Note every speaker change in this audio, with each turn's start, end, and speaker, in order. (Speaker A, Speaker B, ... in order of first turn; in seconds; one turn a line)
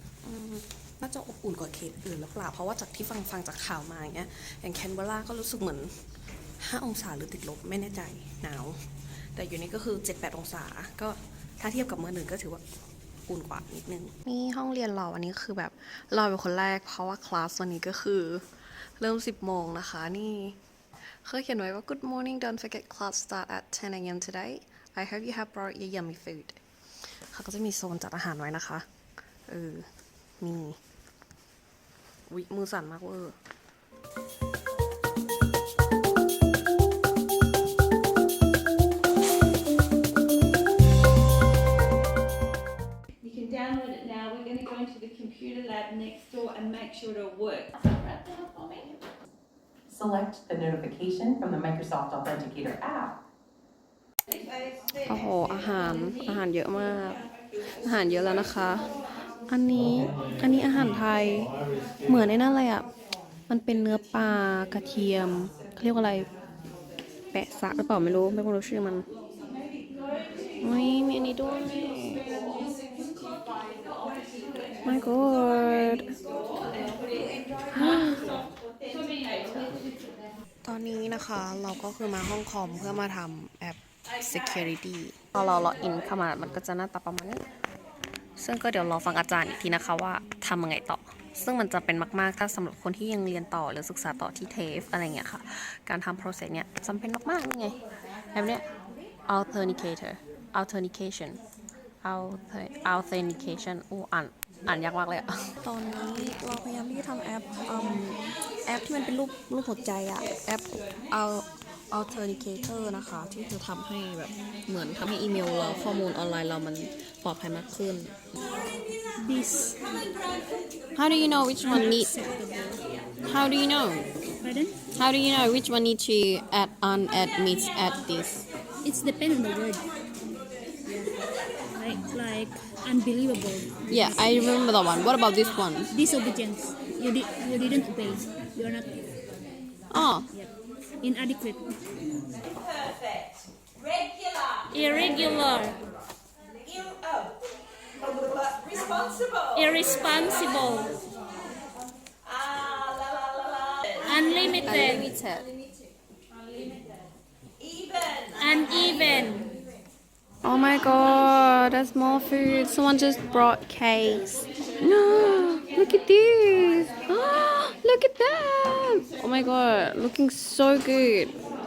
Speaker A: 0.2-6.0
Speaker A: 6.6-8.8
Speaker A: 9.3-12.6
Speaker A: 13.3-26.6
Speaker A: 27.3-28.9
Speaker A: 29.5-29.9
Speaker A: 30.4-30.8
Speaker A: 32.3-33.4
Speaker B: 43.2-47.8
Speaker C: 49.9-53.1
Speaker A: 55.1-57.2
Speaker A: 57.8-58.8
Speaker A: 59.5-61.5
Speaker A: 62.1-62.9
Speaker A: 63.5-66.3
Speaker A: 67.3-69.1
Speaker A: 70.6-72.3
Speaker A: 74.8-76.1
Speaker A: 77.7-78.3
Speaker A: 80.6-87.5
Speaker A: 88.4-97.8
Speaker A: 98.3-98.7
Speaker A: 99.3-101.4
Speaker A: 102.0-118.1
Speaker D: 119.2-119.8
Speaker A: 121.0-122.1
Speaker D: 121.6-122.8
Speaker A: 123.3-124.1
Speaker D: 124.4-124.8
Speaker A: 125.0-128.5
Speaker D: 128.8-129.9
Speaker D: 130.9-131.1
Speaker D: 131.7-133.9
Speaker A: 133.9-135.9
Speaker D: 135.9-139.0
Speaker A: 139.9-140.3
Speaker D: 140.3-141.7
Speaker D: 144.7-145.8
Speaker D: 149.5-151.0
Speaker D: 154.0-155.0
Speaker A: 154.7-155.5
Speaker D: 158.4-159.5
Speaker A: 160.4-164.3
Speaker A: 164.8-171.3